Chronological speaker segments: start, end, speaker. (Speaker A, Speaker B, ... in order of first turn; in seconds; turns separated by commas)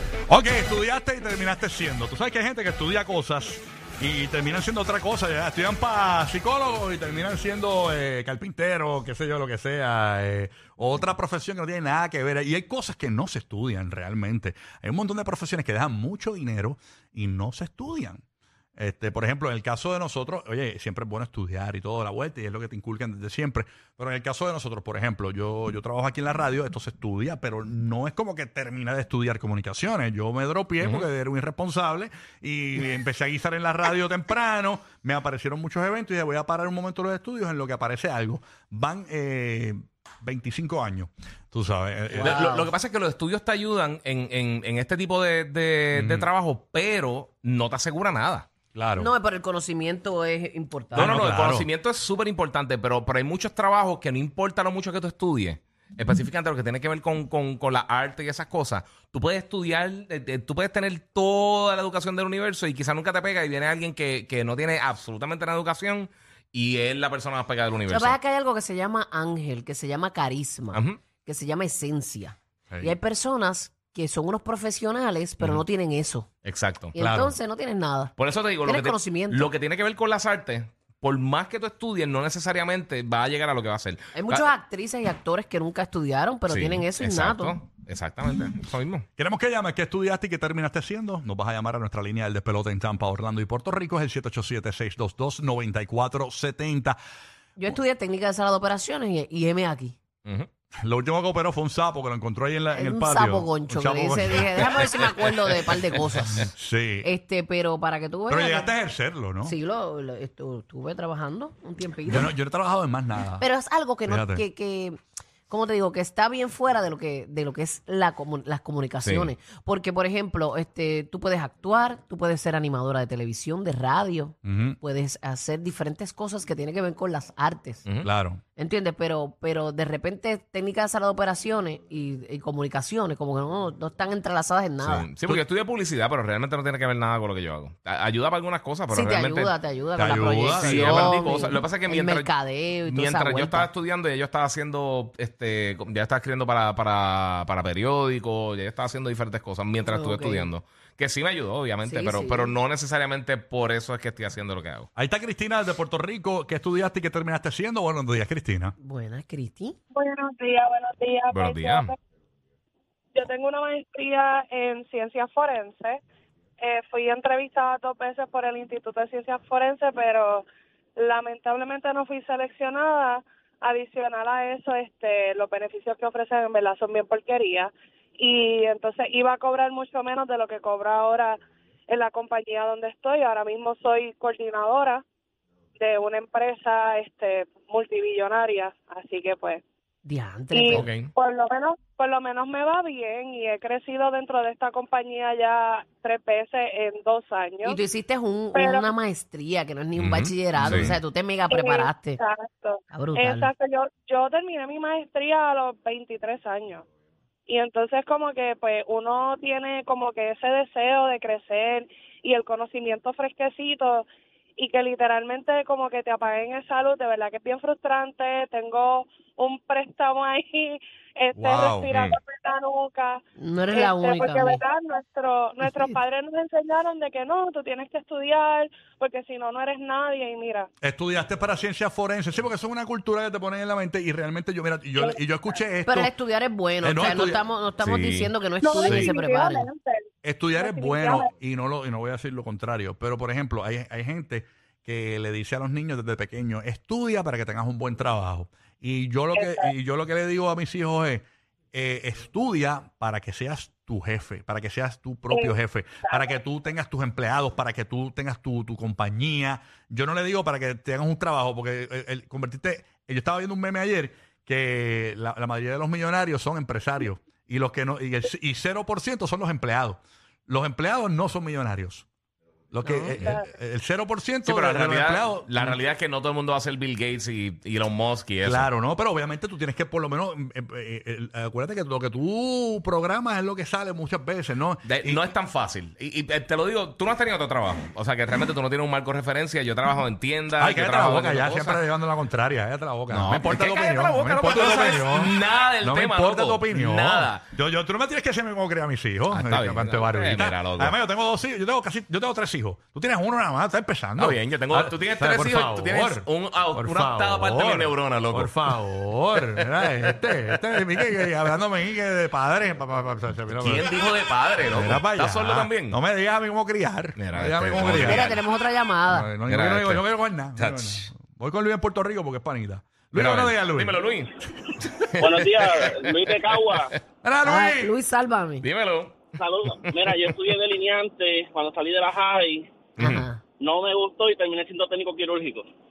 Speaker A: 0.3-18.2, Speaker A: 18.8-42.5, Speaker B: 42.1-42.7, Speaker C: 42.2-48.5, Speaker A: 45.9-46.3, Speaker A: 48.7-49.1, Speaker B: 49.0-51.2, Speaker A: 50.9-51.7, Speaker C: 51.0-68.2, Speaker B: 67.9-76.3, Speaker C: 70.7-71.0, Speaker A: 72.7-73.0, Speaker C: 75.4-75.7, Speaker C: 76.4-77.4, Speaker B: 77.0-79.5, Speaker C: 78.2-84.5, Speaker B: 84.2-87.6, Speaker C: 86.5-89.1, Speaker A: 89.2-97.0, Speaker B: 97.6-100.0, Speaker A: 100.8-105.1, Speaker B: 102.7-106.5, Speaker A: 106.3-107.1, Speaker B: 107.0-108.7, Speaker A: 108.3-109.5, Speaker B: 109.4-112.3, Speaker A: 112.1-113.5, Speaker B: 113.4-115.0, Speaker A: 114.1-114.4, Speaker B: 115.5-127.8, Speaker C: 119.0-119.3, Speaker A: 124.5-124.8, Speaker A: 128.0-128.4, Speaker B: 128.6-135.1, Speaker C: 134.8-139.5, Speaker B: 138.9-143.7, Speaker A: 140.0-141.2, Speaker C: 140.6-142.3, Speaker C: 142.8-154.9, Speaker B: 149.8-150.5, Speaker B: 151.8-152.5, Speaker A: 154.9-158.8, Speaker B: 158.8-159.8, Speaker D: 159.9-162.0, Speaker C: 161.3-161.9, Speaker D: 163.1-166.0, Speaker D: 166.6-170.4, Speaker D: 170.9-181.4, Speaker D: 181.9-185.0, Speaker D: 185.8-189.6, Speaker B: 190.0-190.9, Speaker D: 190.5-197.8, Speaker C: 190.7-191.1, Speaker B: 197.6-202.2, Speaker D: 198.5-198.9, Speaker C: 199.9-201.0, Speaker A: 200.6-200.9, Speaker D: 201.5-206.8, Speaker B: 202.9-203.5, Speaker D: 207.5-214.0, Speaker D: 214.6-230.7, Speaker A: 221.3-221.9, Speaker B: 223.4-224.6, Speaker B: 225.6-226.0, Speaker A: 230.8-236.1, Speaker B: 235.8-239.7, Speaker A: 236.8-237.4, Speaker C: 237.8-238.3, Speaker D: 238.6-240.0, Speaker A: 240.2-272.1, Speaker D: 240.6-241.2, Speaker D: 249.3-249.7, Speaker A: 272.7-275.8, Speaker D: 273.2-273.5, Speaker C: 274.4-278.7, Speaker A: 278.4-285.3, Speaker C: 284.9-291.8, Speaker A: 290.6-313.9, Speaker C: 293.1-297.5, Speaker C: 299.3-301.0, Speaker C: 304.2-308.8, Speaker C: 309.4-309.7, Speaker C: 313.5-316.0, Speaker A: 314.7-318.4, Speaker C: 317.2-318.4, Speaker B: 318.0-319.3, Speaker A: 319.1-324.0, Speaker C: 319.5-320.1, Speaker C: 320.6-321.1, Speaker C: 323.1-326.8, Speaker E: 325.2-326.9, Speaker A: 327.2-327.9, Speaker B: 327.4-328.6, Speaker C: 328.6-330.4, Speaker E: 329.4-332.7, Speaker C: 333.0-333.2, Speaker B: 333.0-333.4, Speaker E: 333.6-335.7